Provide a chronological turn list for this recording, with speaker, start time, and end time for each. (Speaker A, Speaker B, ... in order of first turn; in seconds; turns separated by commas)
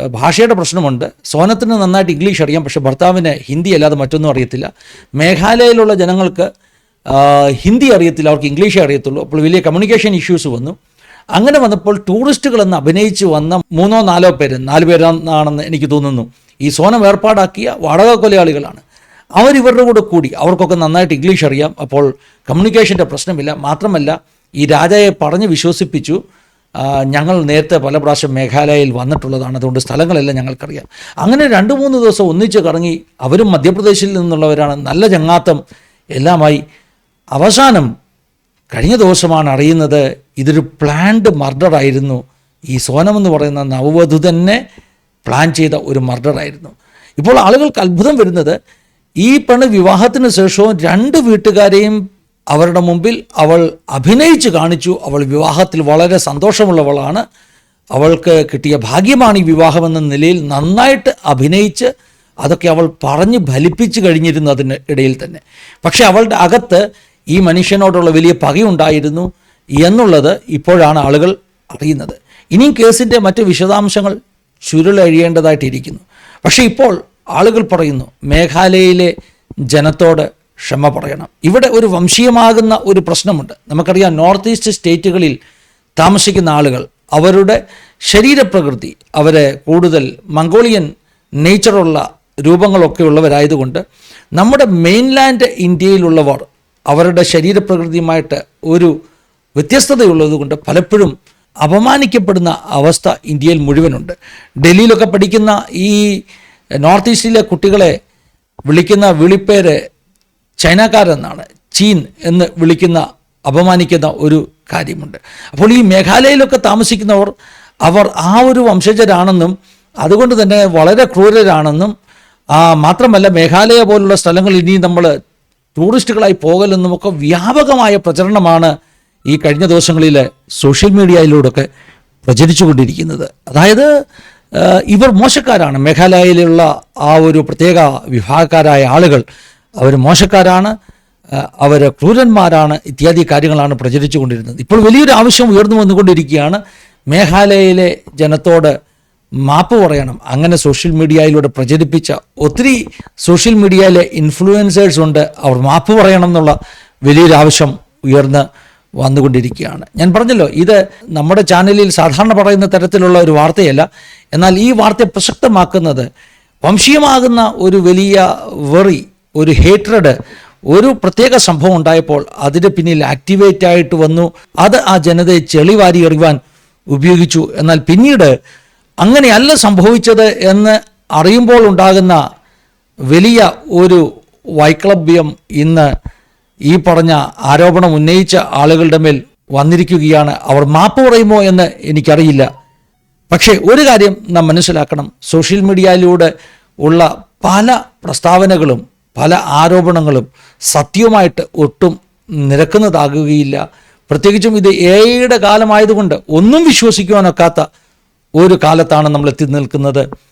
Speaker A: 0.1-6.5, Speaker A: 7.1-10.8, Speaker A: 11.4-18.8, Speaker A: 19.4-26.2, Speaker A: 26.8-35.6, Speaker A: 36.2-36.6, Speaker A: 37.4-37.9, Speaker A: 38.7-44.6, Speaker A: 45.3-48.6, Speaker A: 49.2-52.0, Speaker A: 52.5-57.2, Speaker A: 58.0-61.9, Speaker A: 62.4-66.8, Speaker A: 67.3-69.3, Speaker A: 69.8-74.2, Speaker A: 74.7-79.1, Speaker A: 79.7-85.4, Speaker A: 86.0-90.9, Speaker A: 91.4-93.8, Speaker A: 94.4-98.9, Speaker A: 99.6-101.1, Speaker A: 101.6-106.0, Speaker A: 106.8-107.9, Speaker A: 108.7-109.8, Speaker A: 110.6-117.3, Speaker A: 117.9-121.9, Speaker A: 122.6-125.1, Speaker A: 125.8-128.7, Speaker A: 129.3-131.7, Speaker A: 132.2-133.9, Speaker A: 134.6-139.2, Speaker A: 139.8-140.7, Speaker A: 141.6-146.6, Speaker A: 147.1-148.7, Speaker A: 149.5-158.4, Speaker A: 159.0-166.1, Speaker A: 166.6-170.2, Speaker A: 170.7-176.4, Speaker A: 176.9-178.3, Speaker A: 179.0-182.2, Speaker A: 183.1-184.0, Speaker A: 184.6-185.9, Speaker A: 186.7-192.5, Speaker A: 193.3-196.3, Speaker A: 196.8-207.7, Speaker A: 208.4-210.1